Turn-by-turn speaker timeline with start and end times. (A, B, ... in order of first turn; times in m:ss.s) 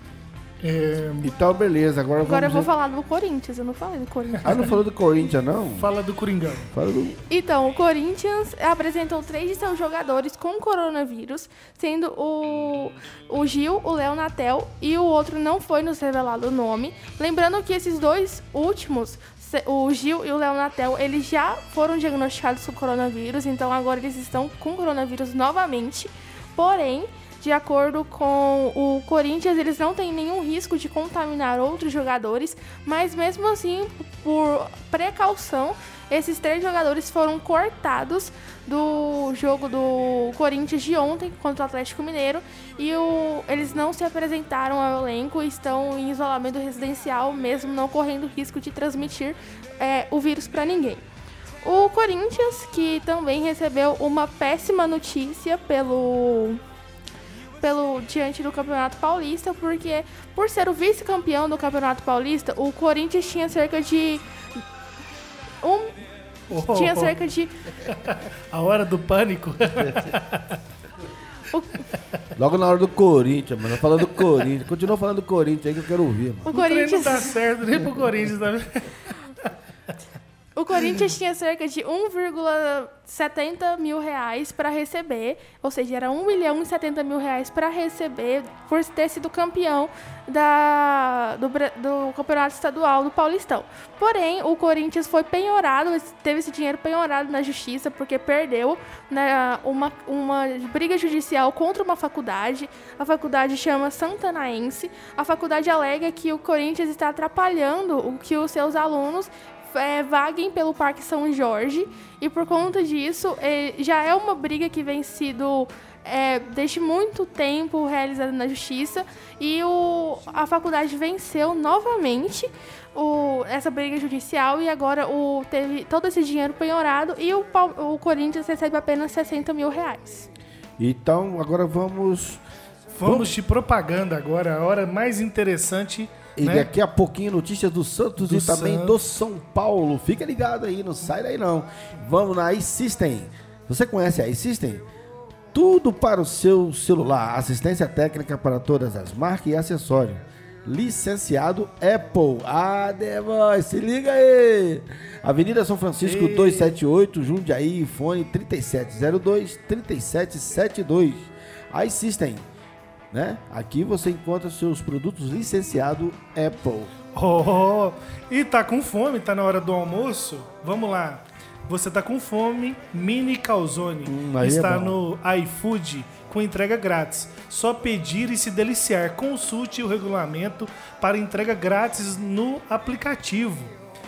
0:00.6-0:01.3 A
0:01.2-0:02.7 B
0:02.3-0:04.6 C
0:04.4-0:05.9 B
0:04.4-0:04.7 A
0:05.8-0:06.7 A
0:06.7-0:07.2 B
0:07.3-0:51.0 C
0:51.6-0:56.6 C
0:57.6-1:04.2 C
1:05.6-1:06.0 C
1:06.5-1:07.2 A
1:06.7-1:07.5 C
1:07.9-1:10.6 A
1:09.8-1:10.1 B
1:11.5-1:11.8 C
1:12.4-1:16.5 B
1:16.5-1:17.3 C
1:16.5-1:19.2 A
1:20.6-2:10.3 C
2:10.8-2:12.4 B
2:13.0-2:16.7 A
2:13.0-2:13.3 B
2:16.4-2:24.8 B
2:18.2-2:19.0 A
2:25.5-2:42.5 B
2:36.0-2:36.8 A
2:43.1-2:46.9 B
2:47.2-3:03.7 A
2:54.0-2:55.0 B